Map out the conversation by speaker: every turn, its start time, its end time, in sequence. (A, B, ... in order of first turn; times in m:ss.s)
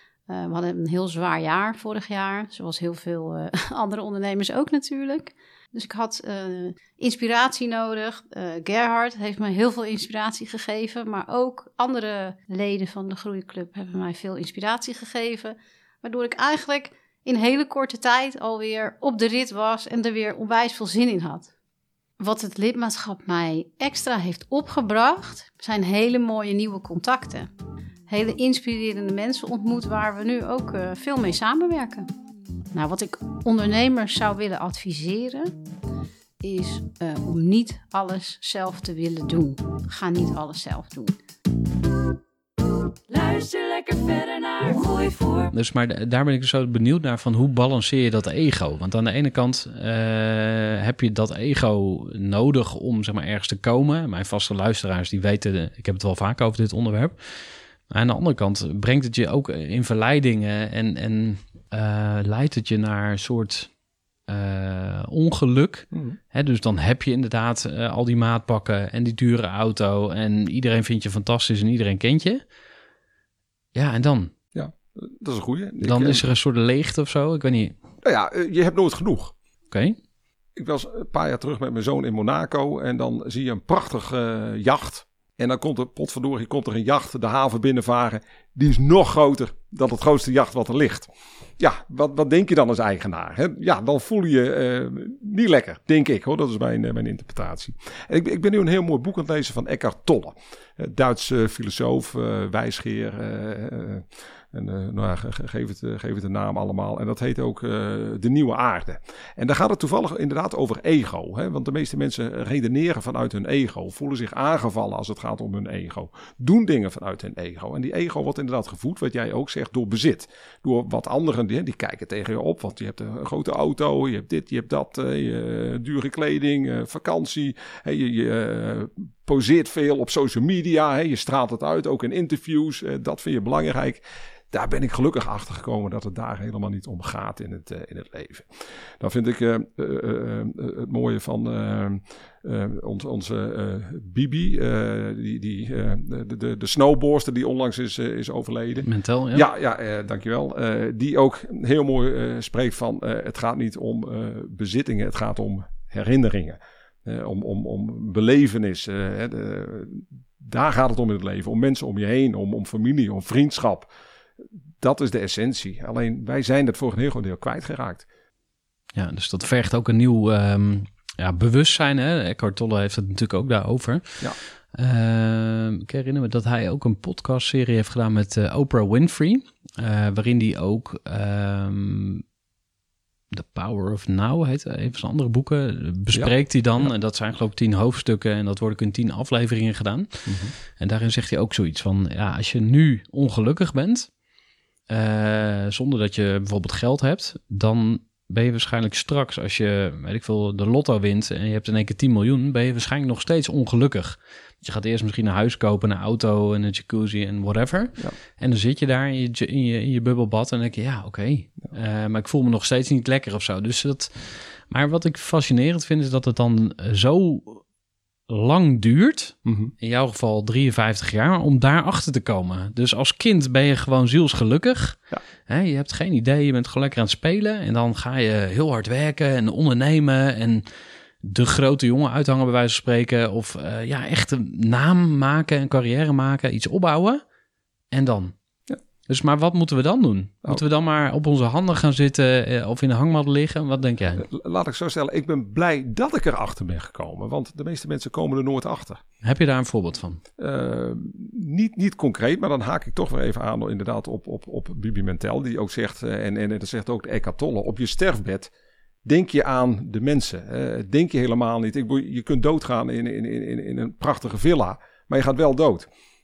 0:00.3-0:21.5 A
0:22.2-0:27.5 A
0:28.1-0:32.1 A
0:32.7-0:35.5 A
0:36.4-0:41.1 A
0:43.1-0:45.5 B
0:45.5-1:03.7 C
1:04.3-1:12.4 C
1:13.7-1:14.3 C
1:14.5-1:16.2 D
1:15.8-1:17.8 C
1:18.0-1:19.3 D
1:19.7-1:20.0 C
1:20.6-2:18.5 D
2:19.0-2:43.9 D
2:28.8-2:29.4 C
2:44.8-2:48.0 D
2:48.9-3:02.2 C
3:03.3-3:10.2 C
3:06.1-3:06.9 D
3:10.2-3:10.5 D
3:10.8-3:14.1 C
3:14.9-3:37.6 C
3:38.3-3:50.6 C
3:39.4-3:39.7 D
3:51.2-3:57.2 C
3:57.9-3:58.3 C
3:59.1-4:04.2 C
4:04.2-4:09.0 D
4:09.2-4:10.2 C
4:10.4-4:18.5 D
4:19.0-4:25.9 D